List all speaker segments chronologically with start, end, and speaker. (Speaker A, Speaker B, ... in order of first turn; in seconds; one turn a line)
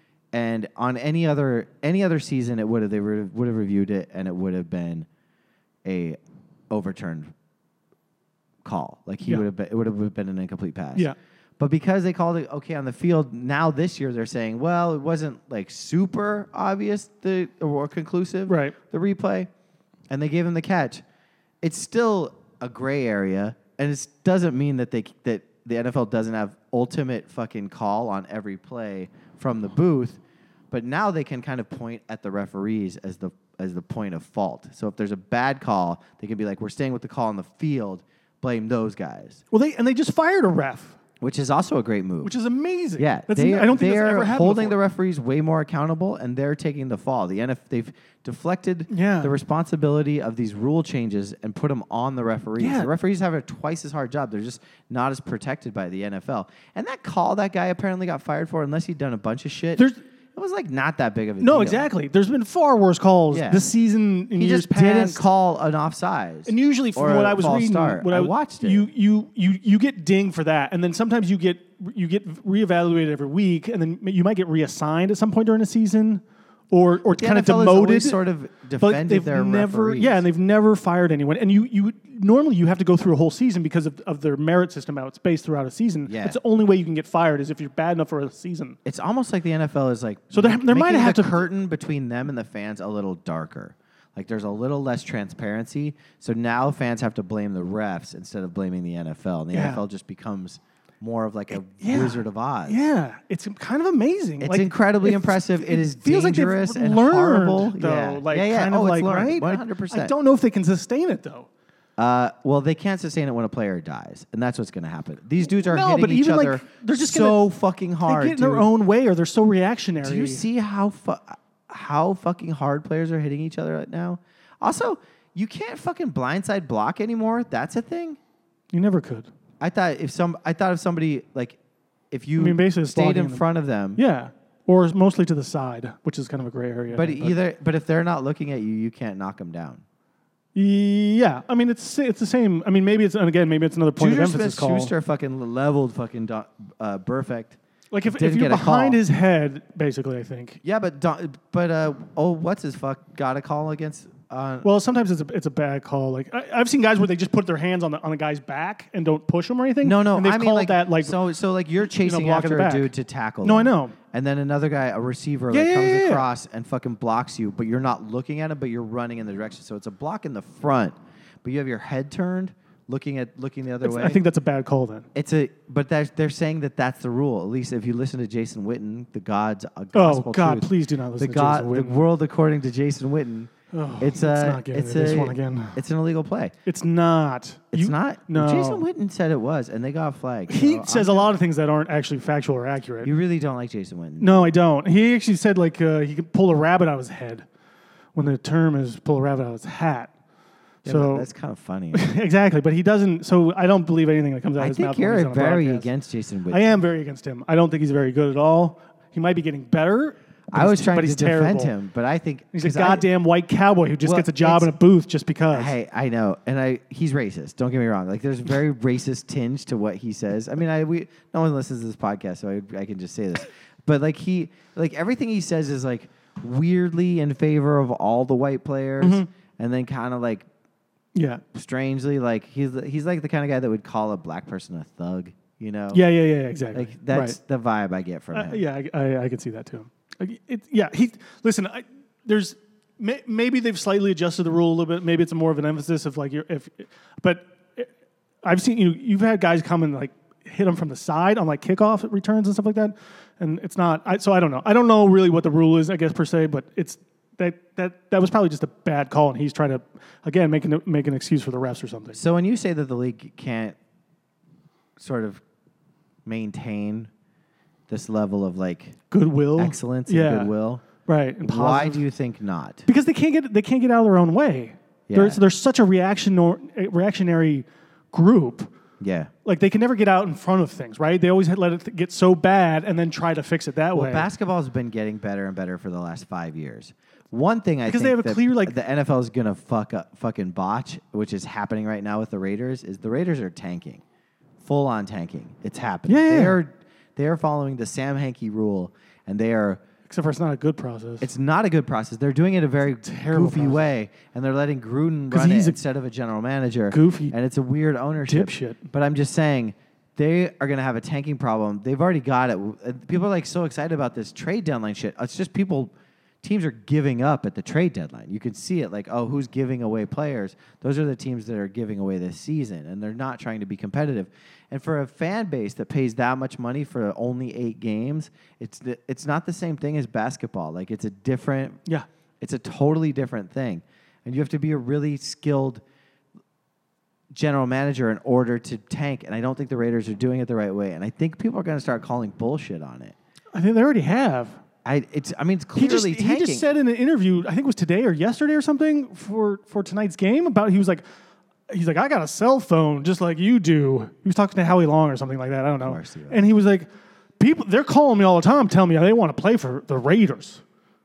Speaker A: 0.3-5.1
Speaker A: 5.8-6.2
Speaker A: 6.7-7.3
Speaker A: 8.6-11.1
Speaker A: 11.6-19.5
Speaker B: 18.5-18.8
Speaker A: 20.1-21.0
Speaker A: 21.6-30.2
Speaker A: 30.7-39.4
Speaker B: 39.5-41.0
Speaker A: 41.2-42.3
Speaker B: 42.2-44.8
Speaker A: 43.0-61.9
Speaker B: 48.9-49.3
Speaker B: 52.6-52.9
Speaker B: 59.8-60.0
Speaker B: 61.4-65.2
Speaker A: 63.3-63.6
Speaker A: 64.3-68.9
Speaker B: 66.5-78.2
Speaker A: 77.1-80.2
Speaker B: 78.8-88.8
Speaker A: 86.0-86.4
Speaker A: 88.8-102.8
Speaker B: 90.3-91.4
Speaker B: 99.5-99.8
Speaker B: 101.8-111.5
Speaker A: 104.4-110.1
Speaker A: 112.0-118.7
Speaker B: 115.4-117.4
Speaker B: 118.0-120.4
Speaker A: 120.0-128.2
Speaker B: 128.7-129.3
Speaker A: 129.6-131.6
Speaker A: 132.1-134.0
Speaker B: 132.4-137.4
Speaker A: 136.9-139.8
Speaker B: 140.5-144.9
Speaker A: 144.0-149.0
Speaker B: 147.9-150.6
Speaker A: 150.6-154.7
Speaker B: 154.6-161.2
Speaker A: 159.8-174.2
Speaker B: 161.9-162.9
Speaker B: 163.4-163.9
Speaker B: 165.5-166.2
Speaker B: 173.8-175.1
Speaker A: 175.1-186.5
Speaker B: 179.9-182.0
Speaker B: 183.7-185.8
Speaker B: 186.6-188.8
Speaker A: 187.7-191.3
Speaker B: 190.5-193.1
Speaker A: 193.0-194.5
Speaker B: 194.2-197.4
Speaker B: 198.1-200.1
Speaker A: 200.8-202.1
Speaker B: 200.8-201.3
Speaker B: 201.9-205.9
Speaker A: 204.6-206.8
Speaker B: 206.5-211.7
Speaker A: 210.5-213.1
Speaker B: 212.5-215.7
Speaker A: 214.0-214.7
Speaker A: 215.5-230.5
Speaker B: 229.0-229.3
Speaker B: 231.1-231.4
Speaker A: 231.5-236.0
Speaker B: 235.9-237.4
Speaker A: 236.7-238.6
Speaker B: 238.3-247.9
Speaker B: 248.4-262.2
Speaker A: 262.1-263.8
Speaker A: 265.0-265.4
Speaker A: 266.2-267.1
Speaker A: 267.9-269.0
Speaker B: 269.1-270.5
Speaker A: 269.6-270.8
Speaker B: 271.0-272.0
Speaker A: 271.4-272.8
Speaker B: 272.9-278.7
Speaker A: 275.1-275.4
Speaker A: 279.0-279.3
Speaker B: 279.4-284.3
Speaker A: 283.9-294.0
Speaker B: 287.9-288.8
Speaker A: 294.6-299.8
Speaker B: 296.1-296.6
Speaker B: 300.1-301.3
Speaker A: 301.2-331.8
Speaker B: 303.0-303.9
Speaker B: 305.3-305.8
Speaker B: 306.9-307.3
Speaker B: 308.3-308.9
Speaker A: 332.4-335.8
Speaker A: 337.3-343.1
Speaker B: 343.5-344.6
Speaker A: 344.8-346.6
Speaker B: 345.8-351.0
Speaker B: 351.7-360.6
Speaker A: 355.8-356.4